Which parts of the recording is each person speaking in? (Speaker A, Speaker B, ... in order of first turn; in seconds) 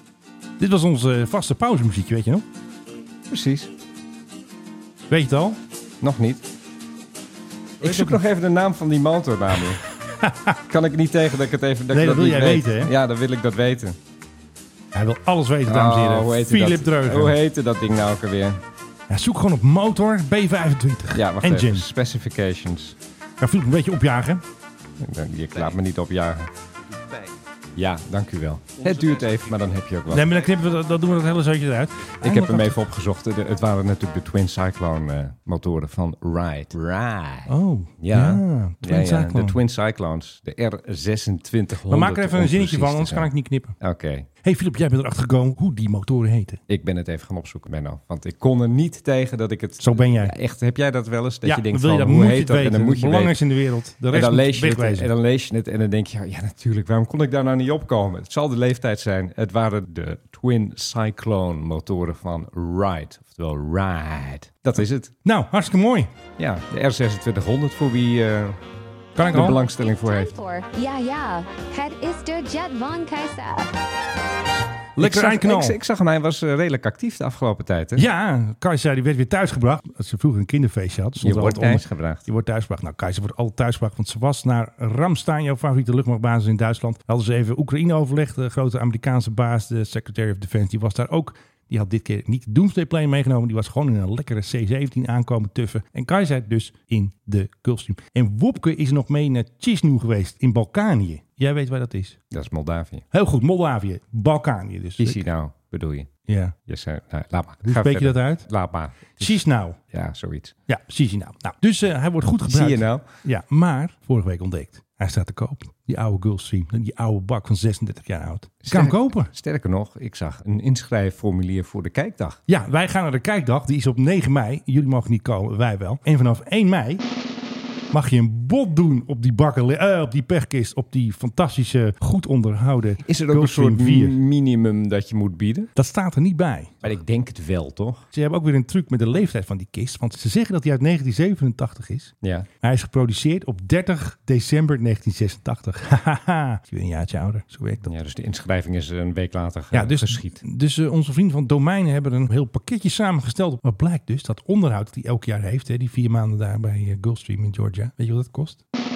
Speaker A: 0.6-2.4, 5.1-5.6, 7.8-8.2, 10.2-10.6, 11.9-12.9, 14.9-17.4, 19.1-21.9, 23.4-24.4, 30.1-32.8, 37.5-39.6, 41.9-43.8, 44.4-46.6, 49.8-50.3, 51.5-55.1, 65.2-66.1, 69.2-69.6, 75.0-75.8, 78.0-102.2, 103.1-105.2, 106.3-106.5, 107.6-108.5, 109.2-109.8, 110.7-119.3, 122.5-127.0, 127.9-134.2, 135.8-136.8, 138.1-147.9, 149.7-158.6
Speaker B: 3.3-3.7, 6.0-6.5, 7.8-9.8, 10.7-14.0, 15.7-18.6, 21.1-23.0, 25.0-26.5, 27.8-30.4, 32.2-44.3, 46.7-53.4, 54.1-65.1, 66.4-68.6, 69.3-70.4, 75.0-78.1, 81.2-82.2, 102.3-103.0, 105.0-106.1, 106.7-110.5, 112.5-113.0, 118.6-122.4, 133.0-135.7, 136.8-138.1, 142.2-142.5, 147.8-150.4
Speaker C: 69.9-73.7